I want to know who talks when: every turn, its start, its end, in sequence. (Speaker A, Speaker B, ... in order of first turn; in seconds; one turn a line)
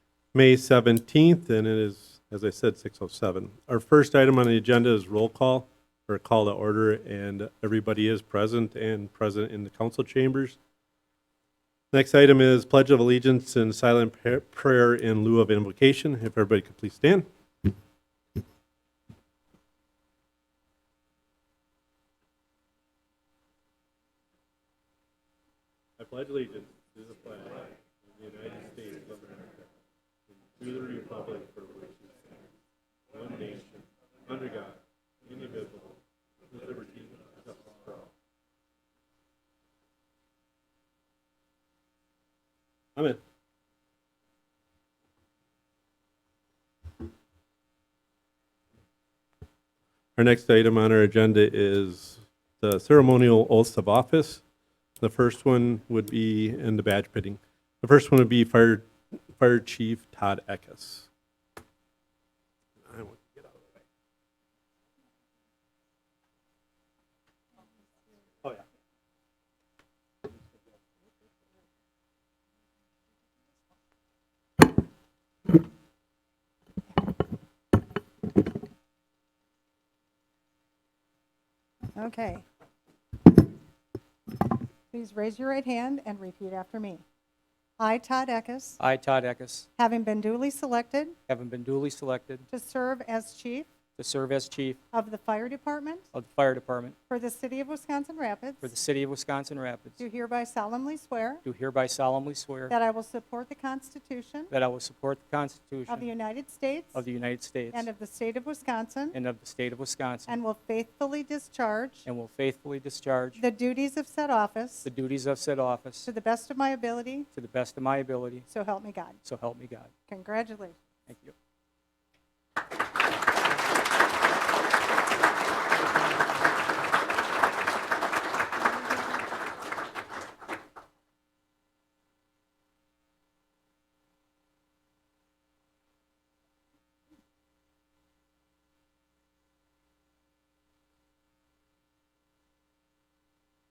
Speaker A: 0.3-10.6
Speaker A: 11.9-17.3
Speaker A: 26.0-29.7
Speaker A: 30.6-32.1
Speaker A: 33.1-36.0
Speaker A: 36.5-38.1
Speaker A: 43.0-43.2
Speaker A: 50.2-54.4
Speaker A: 55.0-61.1
Speaker A: 62.9-63.7
Speaker B: 82.0-82.5
Speaker B: 84.9-87.0
Speaker B: 87.8-88.8
Speaker C: 88.8-89.7
Speaker B: 89.8-91.2
Speaker C: 91.3-92.5
Speaker B: 92.5-93.7
Speaker C: 94.0-94.8
Speaker B: 94.9-96.1
Speaker C: 96.1-97.0
Speaker B: 97.1-98.7
Speaker C: 98.6-100.0
Speaker B: 100.0-101.5
Speaker C: 101.5-102.7
Speaker B: 102.7-104.5
Speaker C: 104.5-106.1
Speaker B: 105.9-107.1
Speaker C: 106.9-107.9
Speaker B: 107.7-109.2
Speaker C: 109.1-110.3
Speaker B: 110.3-112.1
Speaker C: 112.1-113.4
Speaker B: 113.4-114.9
Speaker C: 114.8-116.1
Speaker B: 116.0-117.3
Speaker C: 117.3-118.5
Speaker B: 118.5-119.2
Speaker C: 119.2-119.9
Speaker B: 120.1-120.8
Speaker C: 121.1-121.3